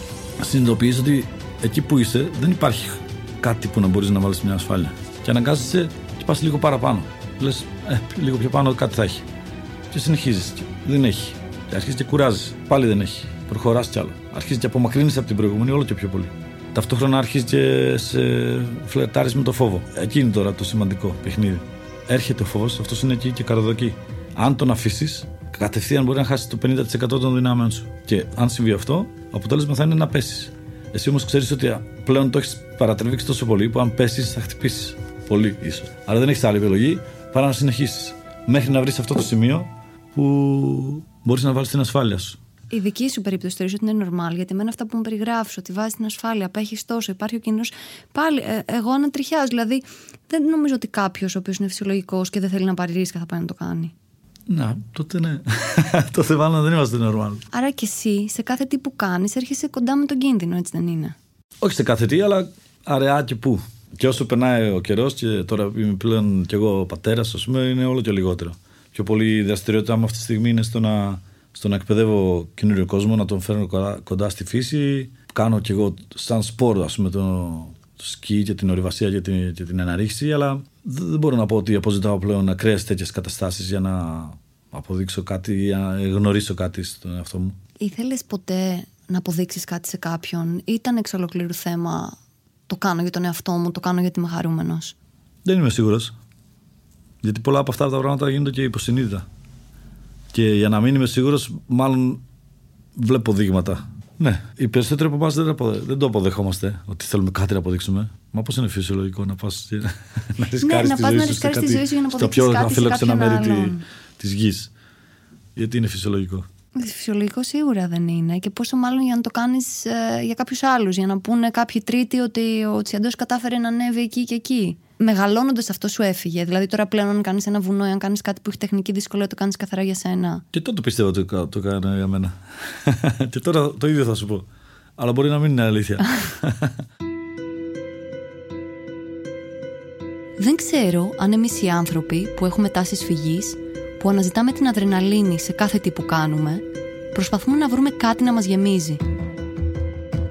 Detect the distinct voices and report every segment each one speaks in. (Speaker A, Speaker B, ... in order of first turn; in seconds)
Speaker A: 0.4-9.3, 9.9-42.4, 54.5-57.4, 61.6-87.6, 95.4-96.1, 97.2-99.2, 100.3-102.2, 103.0-114.7, 115.5-116.5, 130.5-136.8
Speaker B: 42.7-53.9, 57.5-61.1, 87.8-92.2, 92.7-94.9, 110.6-113.8, 116.8-130.4, 140.4-149.0